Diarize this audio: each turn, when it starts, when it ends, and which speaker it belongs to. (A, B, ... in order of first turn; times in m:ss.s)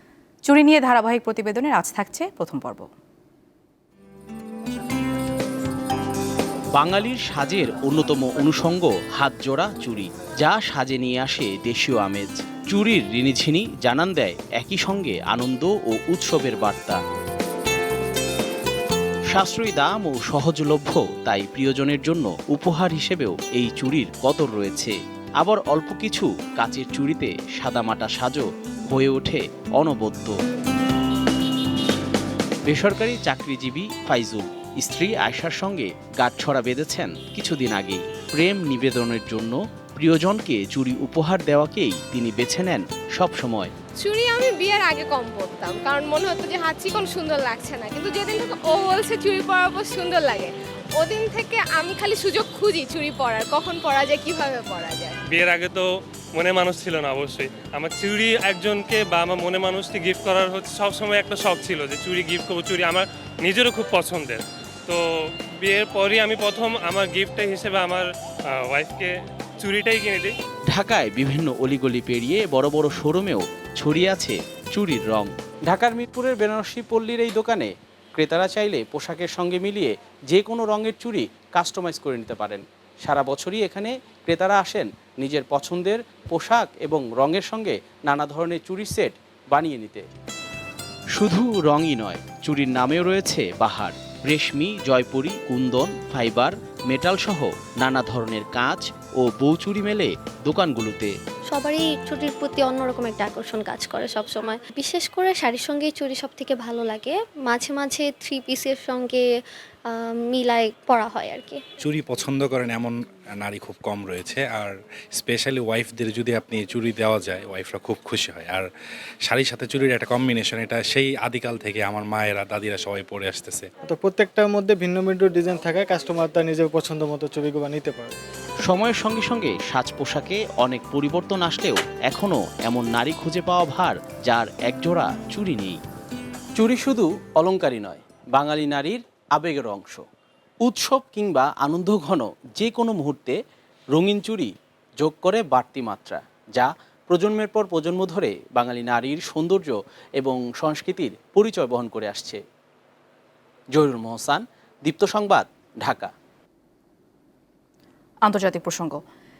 0:00.5-0:02.9 A
0:06.7-0:17.0 B
0:19.3-0:30.4 B
0:32.6-0:43.7 B
0:44.0-0:55.2 C
0:55.2-1:10.4 D
1:10.7-1:30.0 B
1:31.2-1:41.1 B
1:41.4-1:51.7 E
1:51.8-1:58.7 F
1:59.3-2:03.7 F
2:03.8-2:08.2 G
2:08.6-2:15.8 B
2:16.6-2:20.0 B
2:20.6-2:23.4 B
2:23.9-2:32.4 B
2:33.7-2:36.1 B
2:38.2-2:39.0 A